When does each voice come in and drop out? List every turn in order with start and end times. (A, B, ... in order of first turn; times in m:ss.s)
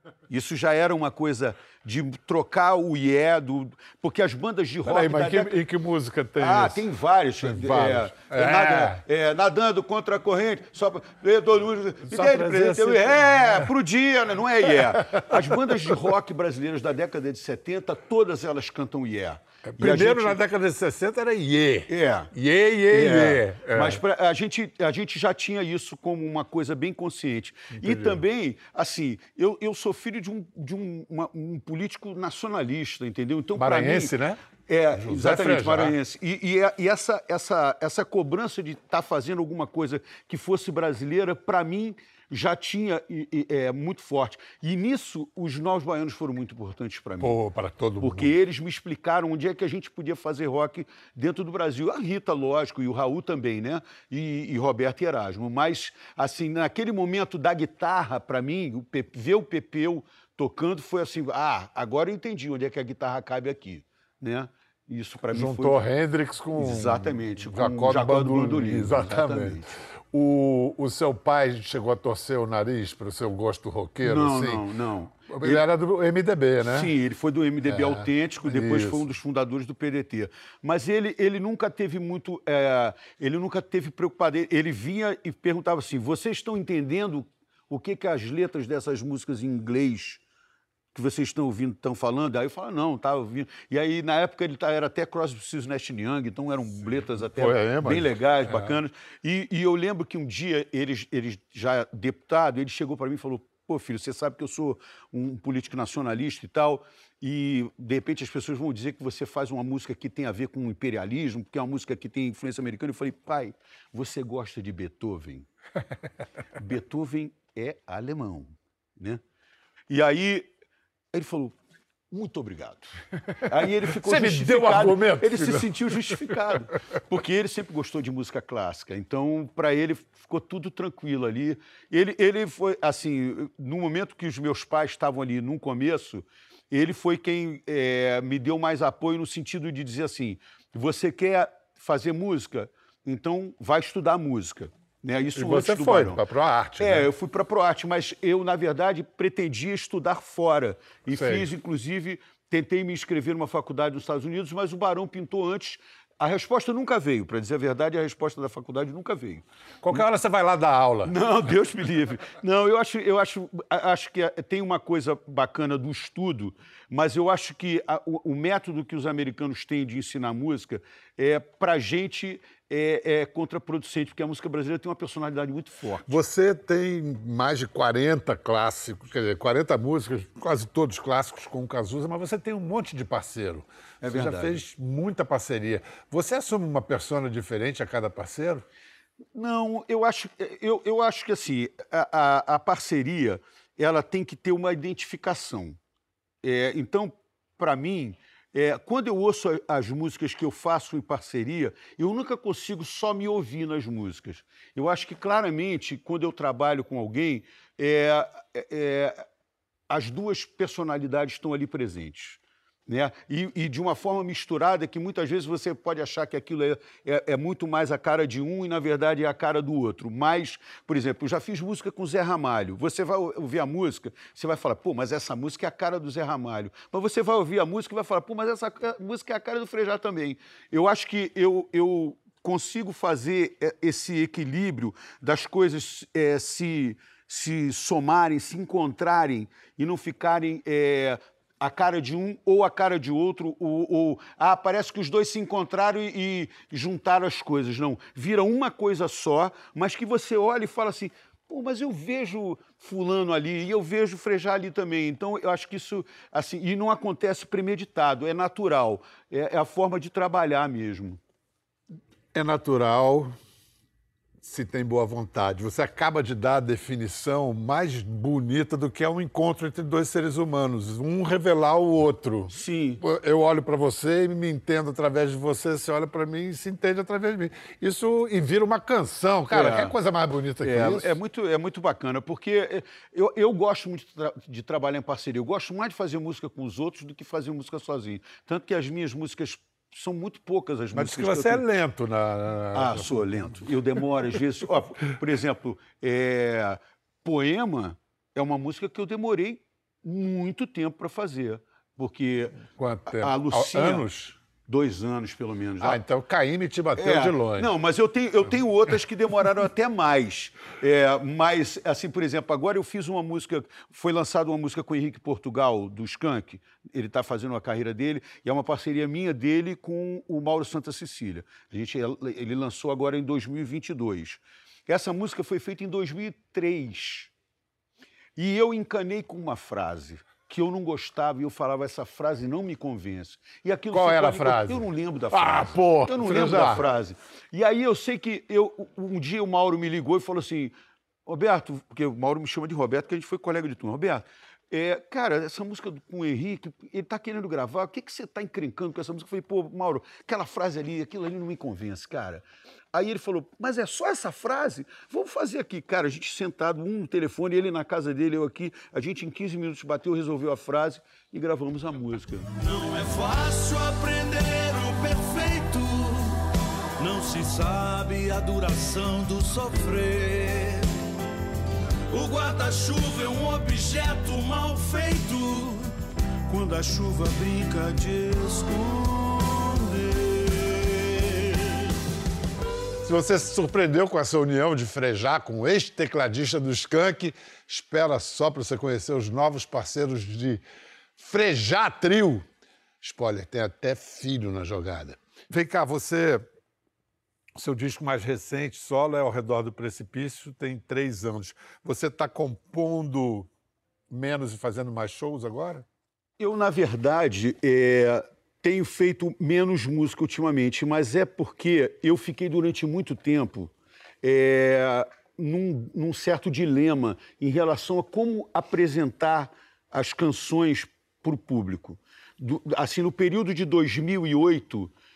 0:00.3-0:05.6 A
0:04.8-0:06.9 B
0:06.4-0:20.4 A
0:07.4-0:09.0 B
0:12.1-0:13.7 B
0:14.6-0:16.0 B
0:19.6-0:24.0 B
0:21.9-0:22.3 A
0:22.9-0:34.2 A
0:27.7-0:28.2 B
0:33.6-0:34.4 B
0:34.7-0:47.4 A
0:34.9-0:36.0 B
0:47.2-0:48.4 B
0:48.0-1:05.8 A
1:05.3-1:14.7 B
1:06.6-1:09.7 A
1:14.0-1:15.6 A
1:15.3-1:16.9 B
1:16.6-1:30.2 A
1:17.6-1:19.1 B
1:30.9-1:55.5 A
1:37.3-1:38.8 B
1:56.6-1:59.2 A
1:59.9-2:00.5 A
2:01.1-2:01.6 A
2:02.1-2:26.2 A
2:03.8-2:06.5 B
2:25.4-2:27.1 B
2:26.8-2:39.4 A
2:31.1-2:31.5 B
2:39.8-2:41.2 B
2:41.0-2:56.2 A
2:56.1-3:08.6 B
3:04.0-3:04.6 A
3:09.3-3:15.8 A
3:16.4-3:29.2 A
3:29.9-4:21.2 A
4:22.3-4:23.4 B
4:24.4-4:41.2 B
4:32.5-4:33.0 A
4:39.5-4:40.0 A
4:40.6-4:51.6 A
4:50.9-4:53.7 B
4:52.7-5:04.1 A
5:02.7-5:04.4 B
5:04.7-5:06.0 A
5:05.8-5:07.7 B
5:07.0-5:27.3 A
5:28.4-5:40.7 A
5:33.9-5:36.9 B
5:41.3-6:02.5 A
6:02.6-6:06.4 C
6:07.0-6:10.9 C
6:12.1-6:16.0 C
6:16.5-6:21.9 C
6:23.0-6:30.6 B
6:31.2-6:32.5 B
6:33.0-6:36.5 B
6:37.6-6:43.5 B
6:44.1-6:45.8 B
6:46.4-7:04.9 A